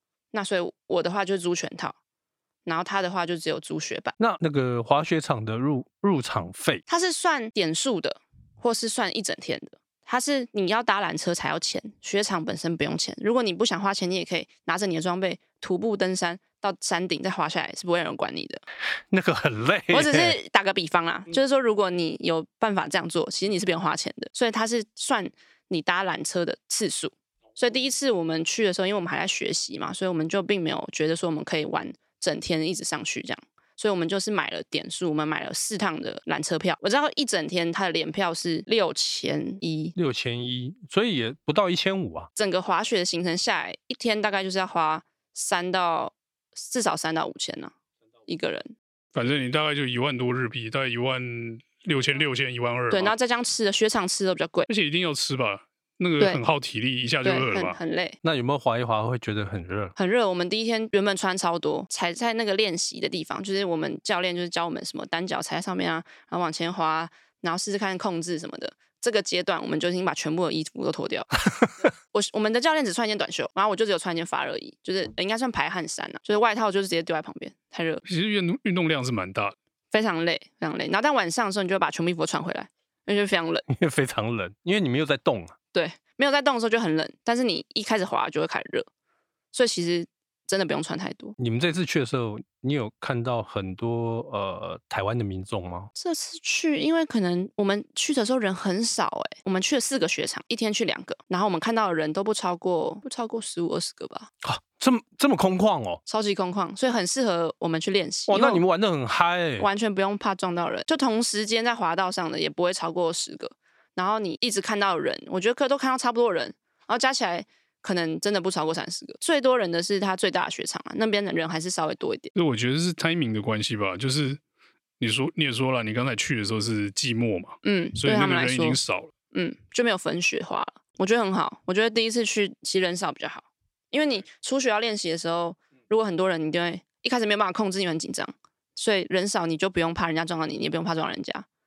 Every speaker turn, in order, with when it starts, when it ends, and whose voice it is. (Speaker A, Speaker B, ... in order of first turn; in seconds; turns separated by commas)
Speaker A: 0.3-1.9, Speaker A: 2.7-4.2, Speaker B: 4.2-6.8, Speaker A: 6.9-18.6, Speaker B: 19.1-20.4, Speaker A: 19.9-39.9, Speaker B: 40.0-42.3, Speaker A: 42.4-47.7, Speaker A: 48.3-48.7, Speaker C: 49.1-53.1, Speaker A: 52.9-54.7, Speaker C: 54.7-57.8, Speaker A: 57.2-58.2, Speaker B: 58.2-60.0, Speaker A: 60.0-78.0, Speaker C: 78.0-79.5, Speaker A: 79.9-83.7, Speaker B: 83.7-85.5, Speaker A: 85.7-88.9, Speaker A: 89.5-91.3, Speaker B: 91.4-95.9, Speaker A: 96.0-104.3, Speaker B: 104.4-106.0, Speaker A: 106.1-108.6, Speaker B: 108.3-109.7, Speaker A: 109.6-122.3, Speaker C: 122.3-124.4, Speaker C: 125.0-129.1, Speaker A: 127.6-128.8, Speaker A: 129.3-141.4